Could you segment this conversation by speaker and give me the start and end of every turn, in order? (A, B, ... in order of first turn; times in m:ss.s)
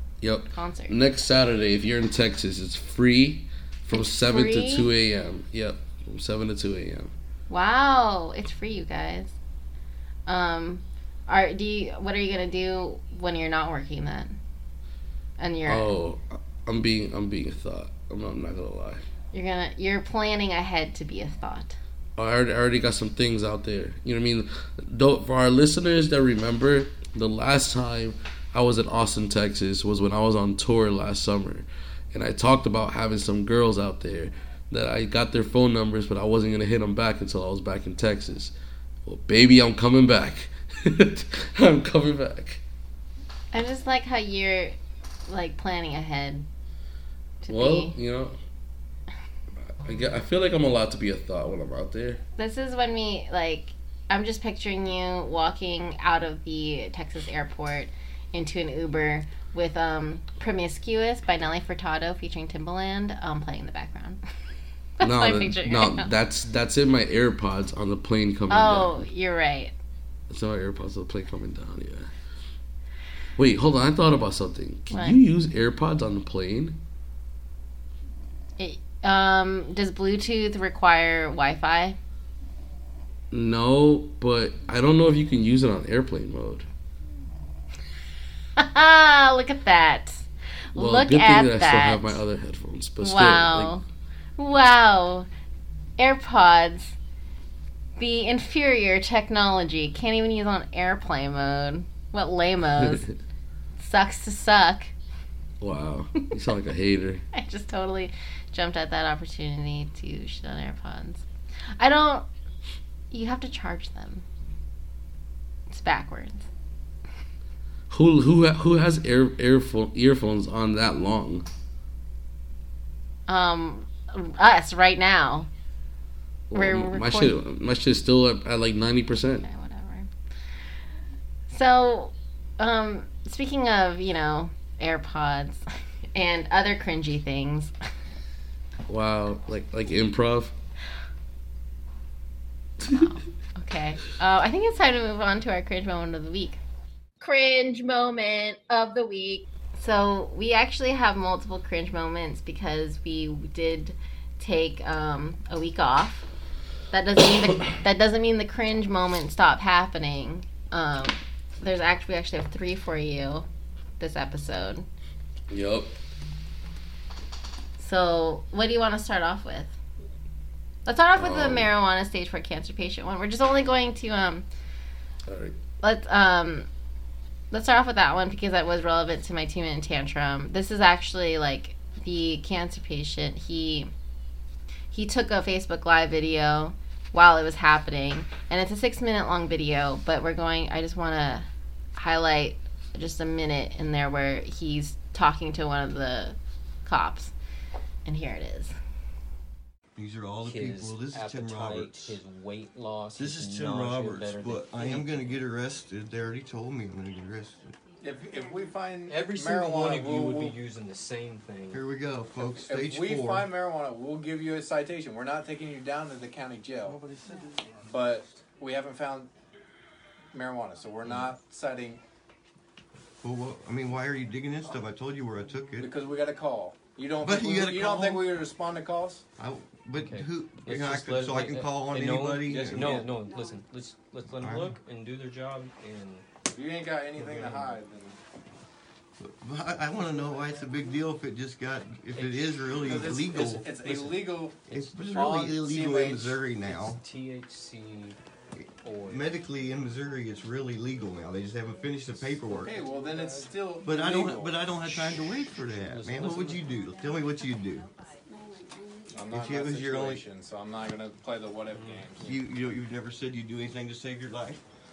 0:00.2-0:07.1 A
0:00.5-0:01.0 B
0:03.9-0:04.9 B
0:07.5-0:09.3 B
0:10.2-0:14.4 B
0:15.4-0:15.9 B
0:15.6-0:19.0 A
0:19.3-0:21.8 B
0:22.2-0:38.5 A
0:39.0-0:42.6 A
0:43.5-0:44.7 B
0:45.3-0:46.5 B
0:47.4-0:47.9 B
0:47.5-0:48.4 A
0:49.7-0:52.2 A
0:52.4-1:04.2 B
1:05.0-1:06.1 B
1:05.0-1:09.1 A
1:08.5-1:09.7 B
1:10.3-1:12.1 A
1:13.4-1:16.8 A
1:14.9-1:15.2 B
1:18.6-1:22.0 B
1:23.3-1:26.7 A
1:28.6-1:32.2 B
1:30.7-1:33.7 A
1:33.0-1:33.8 B
1:34.4-1:35.3 B
1:36.0-1:37.0 B
1:38.0-1:43.1 B
1:42.8-1:43.1 A
1:43.8-1:44.9 B
1:45.6-1:47.2 A
1:47.3-1:52.2 B
1:53.1-1:54.2 B
1:55.7-1:56.5 B
1:57.9-2:01.4 A
2:03.3-2:05.5 B
2:06.5-2:09.4 A
2:06.5-2:07.3 B
2:09.4-2:10.1 B
2:11.5-2:15.6 B
2:16.1-2:17.7 B
2:18.9-2:20.5 A
2:22.8-2:26.6 B
2:27.2-2:36.2 B
2:36.9-2:43.4 B
2:44.0-2:44.8 B
2:45.5-2:45.9 A
2:47.8-2:49.7 B
2:50.8-2:54.4 B
2:51.2-2:51.7 A
2:55.3-2:55.6 A
2:55.8-2:56.7 B
2:57.5-3:03.9 B
3:04.9-3:17.3 B
3:18.0-3:18.8 B
3:20.0-3:22.2 C
3:20.4-3:25.2 D
3:23.1-3:27.8 C
3:28.0-3:30.6 E
3:29.1-3:31.8 D
3:31.7-3:33.5 C
3:32.5-3:37.0 E
3:36.8-3:37.8 C
3:37.9-3:39.3 E
3:40.3-3:42.0 E
3:43.2-3:45.9 C
3:45.8-3:49.2 E
3:47.2-3:48.3 C
3:49.4-3:53.0 C
3:50.0-3:56.2 D
3:52.4-3:53.2 E
3:54.4-3:54.8 C
3:56.5-3:58.2 E
3:57.2-3:57.8 C
3:59.2-4:03.7 C
4:02.1-4:05.3 D
4:02.8-4:06.4 E
4:04.7-4:07.0 C
4:06.6-4:08.2 D
4:08.6-4:13.0 C
4:08.8-4:09.3 D
4:12.4-4:14.7 E
4:13.8-4:17.9 C
4:15.9-4:16.7 D
4:19.1-4:22.4 E
4:19.3-4:20.2 C
4:21.7-4:22.1 D
4:22.2-4:24.6 C